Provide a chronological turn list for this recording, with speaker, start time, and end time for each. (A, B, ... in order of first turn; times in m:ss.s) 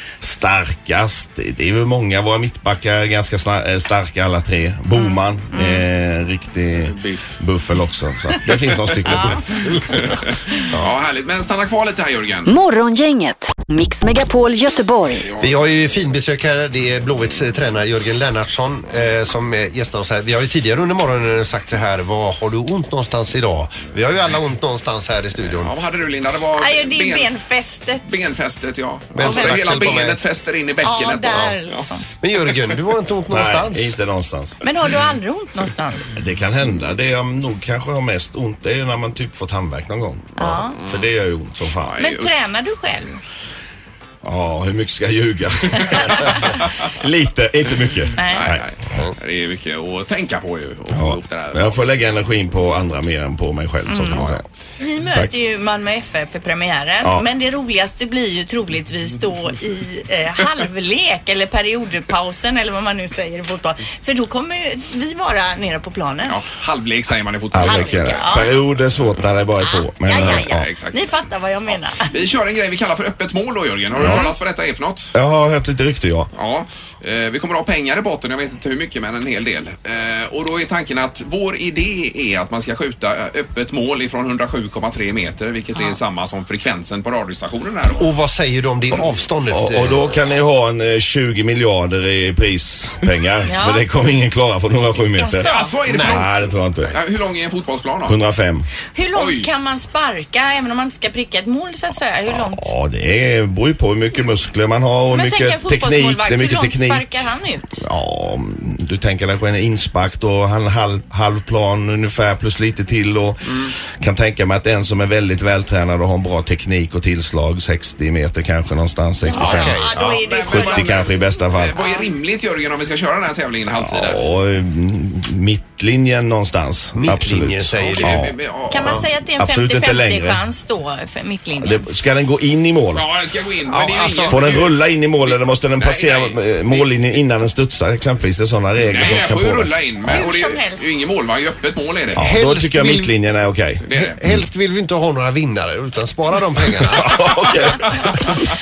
0:00.2-0:09.8 A
0:04.9-0:05.8 B
0:06.8-0:07.2 C
0:09.1-0:09.8 B
0:09.9-0:12.5 C
0:12.5-0:15.3 D
0:15.3-0:16.0 C
0:15.4-0:25.7 E
0:25.6-0:27.4 C
0:26.6-0:28.1 B
0:28.0-0:31.8 C
0:29.2-0:30.2 E
0:29.2-0:29.9 B
0:30.8-0:32.1 B
0:32.2-0:34.0 E
0:33.3-0:34.6 A
0:34.6-0:36.1 B
0:36.1-0:42.0 A
0:40.4-0:40.8 B
0:40.4-0:41.1 C
0:41.8-0:42.5 C
0:42.0-0:43.2 B
0:44.2-0:48.6 A
0:45.9-0:46.3 B
0:48.2-0:48.5 B
0:48.2-0:51.9 C
0:50.9-0:54.4 A
0:53.9-0:54.3 B
0:54.1-0:54.4 C
0:54.8-1:06.4 B
1:06.3-1:08.6 C
1:07.5-1:10.7 A
1:07.6-1:08.6 B
1:09.6-1:12.1 B
1:10.2-1:11.0 C
1:12.0-1:15.1 C
1:14.0-1:14.3 A
1:15.1-1:16.3 A
1:16.3-1:28.1 C
1:28.0-1:30.1 E
1:29.5-1:37.0 A
1:33.5-1:33.8 B
1:35.2-1:35.8 B
1:35.4-1:38.2 C
1:35.9-1:36.2 E
1:38.1-1:38.7 A
1:38.9-1:42.7 B
1:39.1-1:39.5 C
1:42.3-1:47.2 A
1:45.1-1:47.8 B
1:47.8-2:01.7 A
1:59.2-2:01.1 B
1:59.4-2:04.3 C
1:59.4-2:00.0 E
2:01.8-2:02.0 B
2:03.8-2:10.4 A
2:06.9-2:08.2 E
2:07.8-2:09.0 C
2:08.7-2:11.9 B
2:11.6-2:13.1 A
2:12.9-2:17.2 C
2:13.7-2:14.6 E
2:13.8-2:20.2 A
2:18.9-2:22.3 C
2:20.1-2:20.9 B
2:22.2-2:24.4 A
2:22.2-2:23.1 E
2:23.8-2:24.2 C
2:23.9-2:27.2 E
2:26.8-2:28.3 A
2:27.0-2:27.4 C